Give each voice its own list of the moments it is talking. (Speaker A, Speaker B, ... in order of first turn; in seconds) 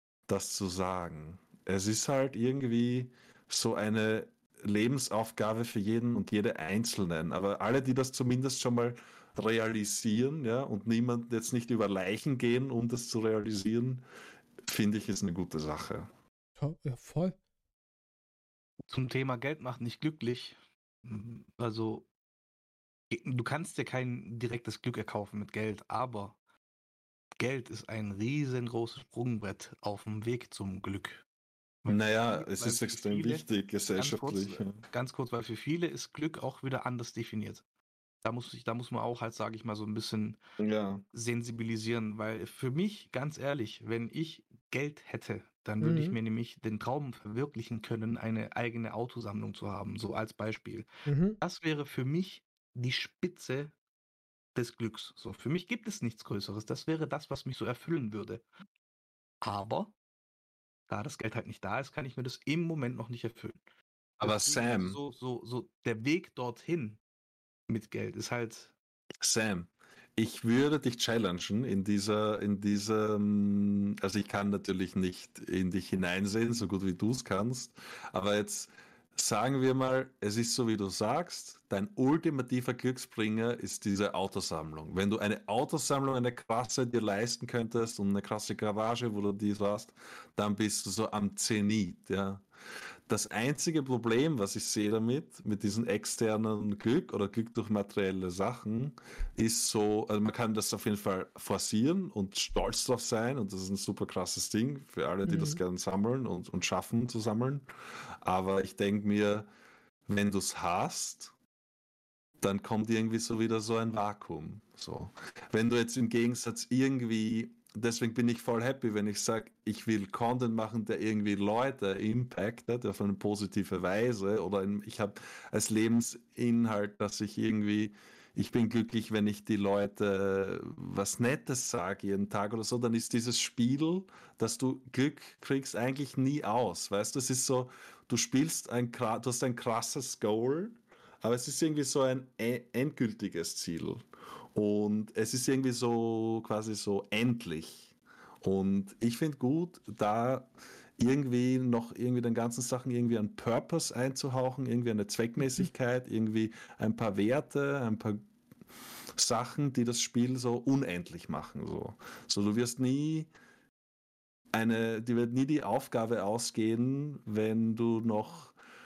Speaker A: 0.3-14.0, 14.6-16.1, 31.9-34.8, 40.6-41.0, 64.2-65.0, 69.2-92.4, 93.1-107.6, 108.2-109.5, 110.1-111.3, 112.4-158.2, 159.2-163.3, 164.5-168.6
Speaker B: 16.6-17.4, 45.8-46.1, 51.0-51.4, 105.2-105.6
Speaker C: 18.9-22.1, 23.1-26.4, 27.4-31.2, 31.8-33.4, 34.0-37.6, 38.2-40.4, 41.1-53.7, 54.5-58.4, 59.4-59.9, 60.9-63.6, 64.2-67.0, 67.7-68.7